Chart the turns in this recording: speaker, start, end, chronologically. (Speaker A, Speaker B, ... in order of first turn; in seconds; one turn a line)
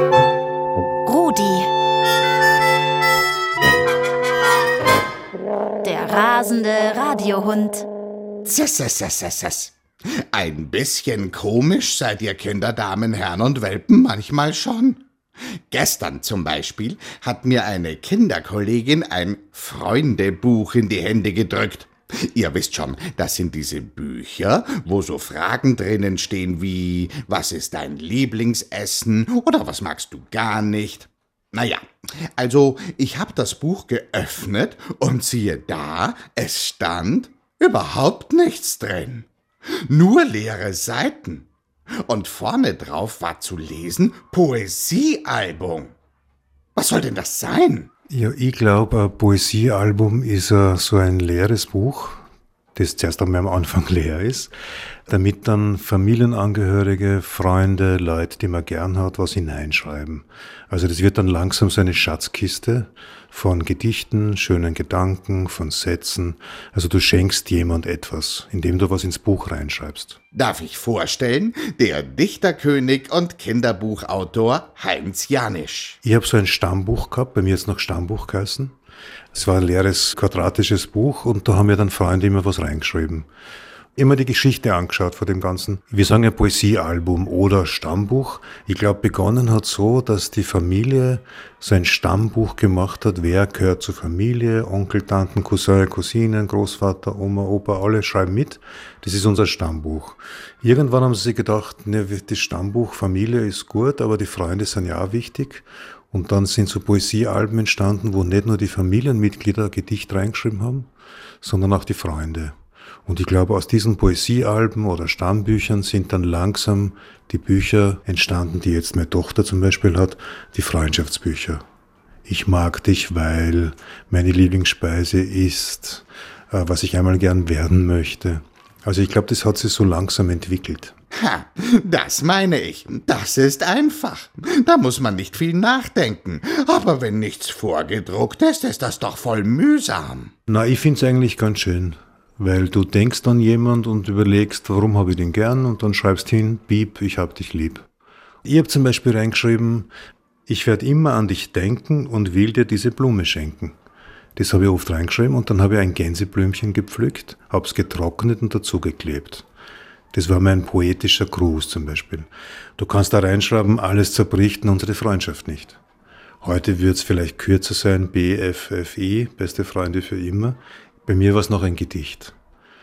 Speaker A: 1.0-1.7
Speaker A: 5.8-7.9
Speaker B: 8.4-15.1
Speaker B: 15.7-41.5
Speaker B: 42.0-45.9
Speaker B: 46.7-47.9
Speaker C: 48.1-52.2
Speaker C: 52.7-54.5
Speaker C: 55.1-70.2
Speaker B: 70.3-76.0
Speaker C: 76.0-78.7
Speaker C: 79.3-83.3
Speaker C: 84.0-110.9
Speaker C: 111.4-112.5
Speaker C: 113.1-121.6
Speaker C: 122.2-130.9
Speaker B: 131.1-140.3
Speaker C: 140.5-147.8
Speaker C: 148.4-149.9
Speaker C: 150.5-153.7
Speaker C: 154.3-159.4
Speaker C: 160.1-165.8
Speaker C: 166.4-172.3